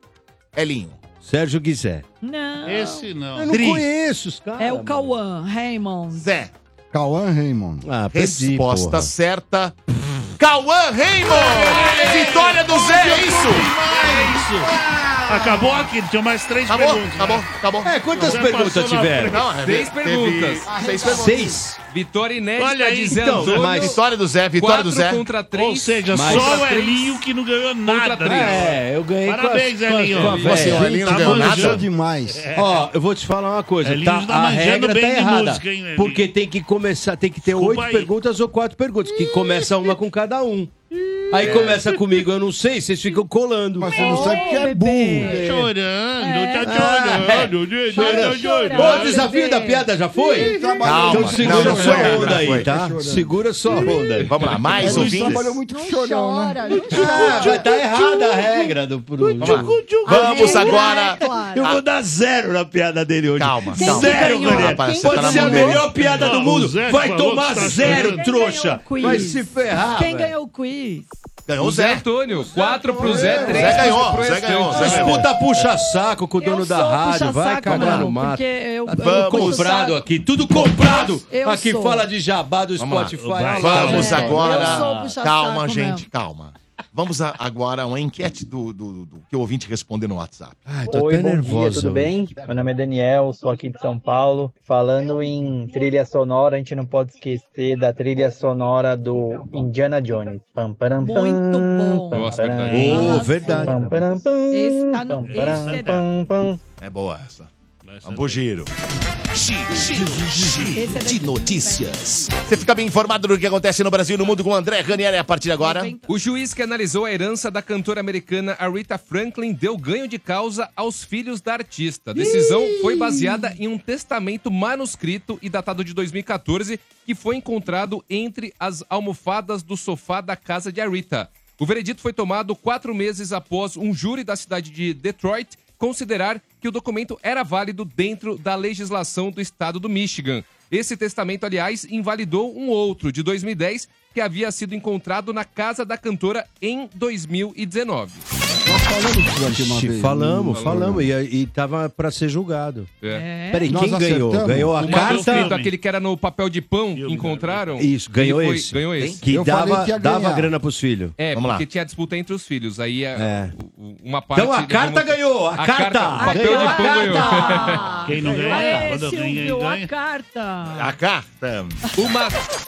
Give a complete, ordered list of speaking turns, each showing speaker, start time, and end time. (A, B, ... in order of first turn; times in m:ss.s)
0:00.5-0:01.0 A
0:01.2-0:02.0 B
0:02.2-0:03.1 C
0:02.6-0:03.5 D
0:03.4-0:05.1 B
0:03.5-0:03.8 A
0:04.6-0:06.3 C
0:06.1-0:06.5 A
0:06.9-0:07.8 E
0:07.8-0:09.1 B
0:08.1-0:09.8 A
0:10.4-0:13.8 A
0:11.7-0:12.1 C
0:11.7-0:14.7 D
0:14.7-0:15.9 E
0:15.3-0:17.5 D
0:16.7-0:17.9 A
0:17.8-0:19.4 B
0:18.2-0:19.4 D
0:19.2-0:21.6 A
0:19.6-0:20.7 F
0:20.6-0:21.6 E
0:21.1-0:21.8 B
0:21.9-0:24.0 F
0:22.6-0:23.8 D
0:23.1-0:23.9 B
0:23.8-0:25.2 A
0:24.6-0:27.2 F
0:25.5-0:32.8 D
0:26.1-0:26.7 B
0:27.8-0:28.7 F
0:28.2-0:31.0 B
0:30.2-0:30.6 F
0:30.3-0:31.8 A
0:30.6-0:32.5 E
0:32.5-0:40.7 B
0:33.8-0:36.3 D
0:37.4-0:38.1 D
0:41.3-0:44.3 B
0:41.4-0:41.9 D
0:43.8-0:45.5 E
0:43.9-0:45.5 C
0:45.2-0:45.6 B
0:45.3-0:49.3 D
0:46.2-0:46.9 C
0:46.6-0:55.4 B
0:47.9-0:50.8 C
0:50.3-0:53.9 E
0:50.8-0:52.7 A
0:54.2-0:55.5 A
0:54.8-0:57.6 E
0:55.7-0:57.6 C
0:56.9-0:59.9 B
0:57.0-0:58.6 D
0:59.2-1:01.0 D
0:59.4-1:01.8 A
1:00.0-1:01.7 C
1:01.6-1:10.3 B
1:03.4-1:05.9 A
1:03.7-1:05.9 C
1:05.8-1:08.3 D
1:07.8-1:11.1 C
1:11.4-1:12.0 A
1:11.6-1:15.2 F
1:12.6-1:13.2 C
1:13.0-1:13.9 B
1:13.0-1:13.6 E
1:13.3-1:15.2 A
1:14.8-1:24.8 B
1:16.4-1:22.1 C
1:17.7-1:18.0 A
1:19.0-1:19.8 A
1:22.8-1:30.6 A
1:23.1-1:24.6 D
1:23.8-1:26.0 C
1:30.7-1:32.3 B
1:30.9-1:46.6 G
1:41.0-1:43.8 C
1:42.1-1:43.1 F
1:42.7-1:43.9 B
1:44.5-1:46.0 C
1:45.2-1:46.0 D
1:46.8-1:47.5 A
1:47.8-1:48.4 D
1:48.0-1:48.7 A
1:49.3-1:55.9 A
1:49.7-1:50.8 E
1:50.7-1:52.3 C
1:55.6-1:56.1 C
1:56.1-2:28.2 F
2:28.6-2:31.1 E
2:29.4-2:32.9 B
2:30.5-2:30.8 F
2:33.1-2:33.7 C
2:33.5-2:35.5 B
2:33.7-2:34.9 E
2:34.8-2:39.2 F
2:34.8-2:35.7 D
2:36.9-2:37.8 D
2:37.8-2:41.2 B
2:39.3-2:40.5 E
2:41.2-2:48.0 F
2:41.3-2:41.6 A
2:43.2-2:43.5 B
2:44.3-2:47.7 B
2:46.2-2:50.9 C
2:48.0-2:49.9 D
2:50.7-2:51.8 A
2:52.0-2:52.4 F